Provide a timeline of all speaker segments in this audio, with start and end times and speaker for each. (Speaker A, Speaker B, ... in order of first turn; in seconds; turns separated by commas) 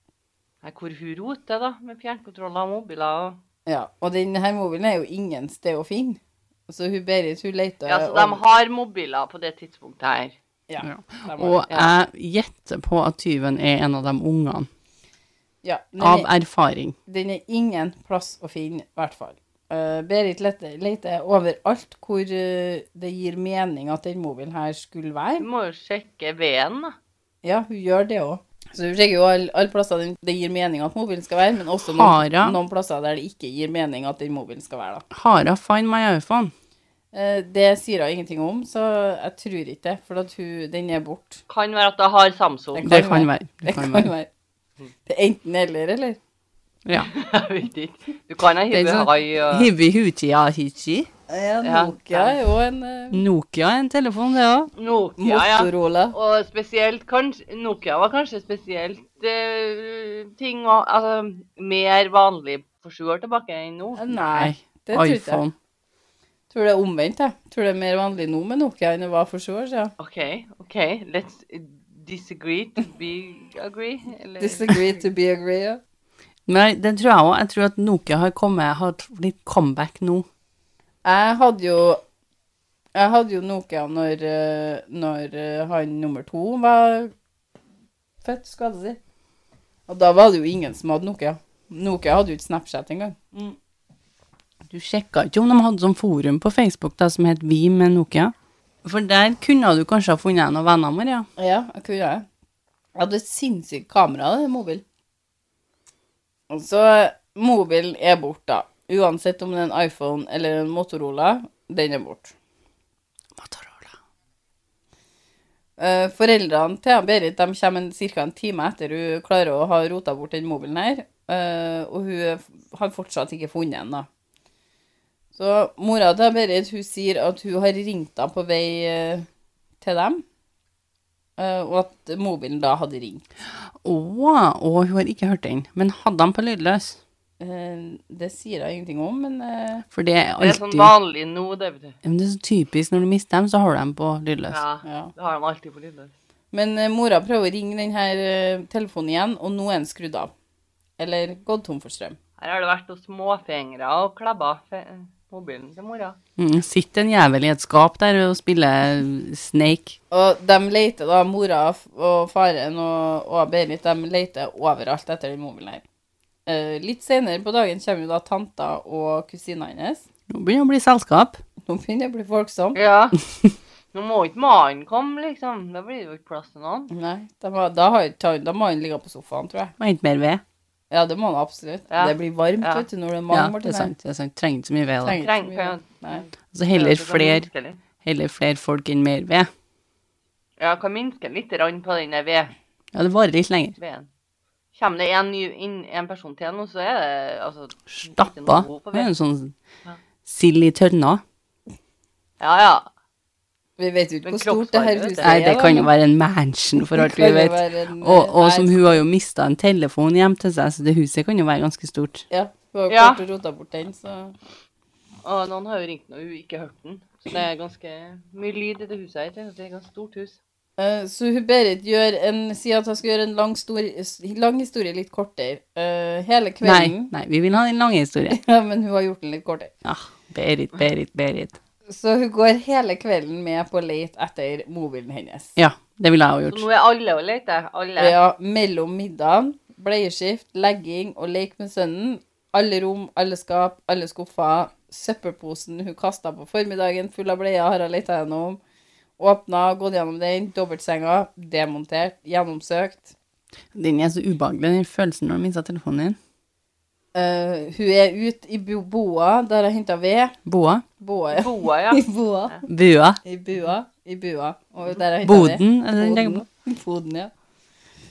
Speaker A: 0.6-3.4, Speaker B: 3.7-8.4, Speaker A: 7.9-10.3, Speaker B: 10.7-11.7, Speaker C: 10.8-14.7, Speaker B: 15.6-16.3, Speaker C: 16.0-17.0, Speaker B: 17.1-25.5, Speaker A: 25.4-27.0, Speaker B: 27.4-35.0, Speaker C: 31.8-32.6, Speaker C: 35.1-36.5, Speaker B: 37.1-41.4, Speaker A: 41.5-42.9, Speaker B: 42.8-44.3, Speaker C: 42.9-44.1, Speaker B: 45.1-46.2, Speaker C: 46.9-47.1, Speaker A: 47.0-49.7, Speaker C: 48.7-51.1, Speaker B: 51.3-53.2, Speaker A: 51.6-52.4, Speaker C: 53.1-54.7, Speaker A: 54.8-64.1, Speaker B: 55.2-56.1, Speaker B: 64.0-65.4, Speaker C: 64.2-65.5, Speaker B: 66.5-69.9, Speaker A: 70.0-75.0, Speaker B: 74.4-75.8, Speaker C: 76.5-80.3, Speaker B: 81.0-82.0, Speaker B: 83.0-87.1, Speaker B: 88.2-89.0, Speaker B: 89.9-93.6, Speaker C: 94.7-101.3, Speaker B: 101.4-102.3, Speaker B: 103.0-104.8, Speaker B: 106.5-112.3, Speaker C: 113.4-113.9, Speaker B: 115.8-124.1, Speaker B: 125.3-129.3, Speaker B: 129.8-130.2, Speaker B: 131.4-133.2, Speaker C: 133.8-137.0, Speaker B: 137.4-139.8, Speaker C: 139.9-140.9, Speaker A: 140.4-142.0, Speaker C: 142.0-144.6, Speaker A: 144.5-146.1, Speaker B: 144.8-145.1, Speaker B: 146.5-150.3, Speaker B: 151.0-152.2, Speaker A: 152.4-156.2, Speaker C: 156.4-160.0, Speaker B: 160.1-165.8, Speaker B: 166.5-170.1, Speaker C: 170.3-171.4, Speaker B: 171.7-172.8, Speaker A: 172.8-173.2, Speaker A: 173.9-176.9, Speaker B: 176.9-179.7, Speaker C: 179.8-180.4, Speaker B: 180.9-183.9, Speaker A: 181.9-182.9, Speaker C: 183.3-185.2, Speaker B: 185.0-186.2, Speaker A: 185.1-187.8, Speaker C: 186.5-187.5, Speaker C: 188.0-189.5, Speaker A: 190.6-192.5, Speaker C: 192.9-193.8, Speaker A: 193.8-194.1, Speaker A: 194.8-199.1, Speaker C: 197.9-199.6, Speaker C: 200.2-201.2, Speaker A: 202.4-202.9, Speaker B: 203.8-205.9, Speaker A: 204.2-205.3, Speaker C: 205.2-212.2, Speaker B: 206.9-209.0, Speaker B: 212.3-214.4, Speaker A: 212.9-213.2, Speaker A: 215.2-220.4, Speaker B: 220.8-227.1, Speaker C: 226.6-228.4, Speaker B: 228.3-229.7, Speaker C: 229.8-231.6, Speaker B: 231.9-235.6, Speaker C: 235.6-236.7, Speaker A: 236.5-238.2, Speaker B: 238.0-248.6, Speaker B: 249.2-253.2, Speaker C: 253.7-256.2, Speaker B: 257.1-260.4, Speaker C: 260.5-260.9, Speaker B: 261.0-262.6, Speaker A: 261.3-262.6, Speaker C: 262.7-263.2, Speaker B: 263.2-267.3, Speaker C: 265.2-266.4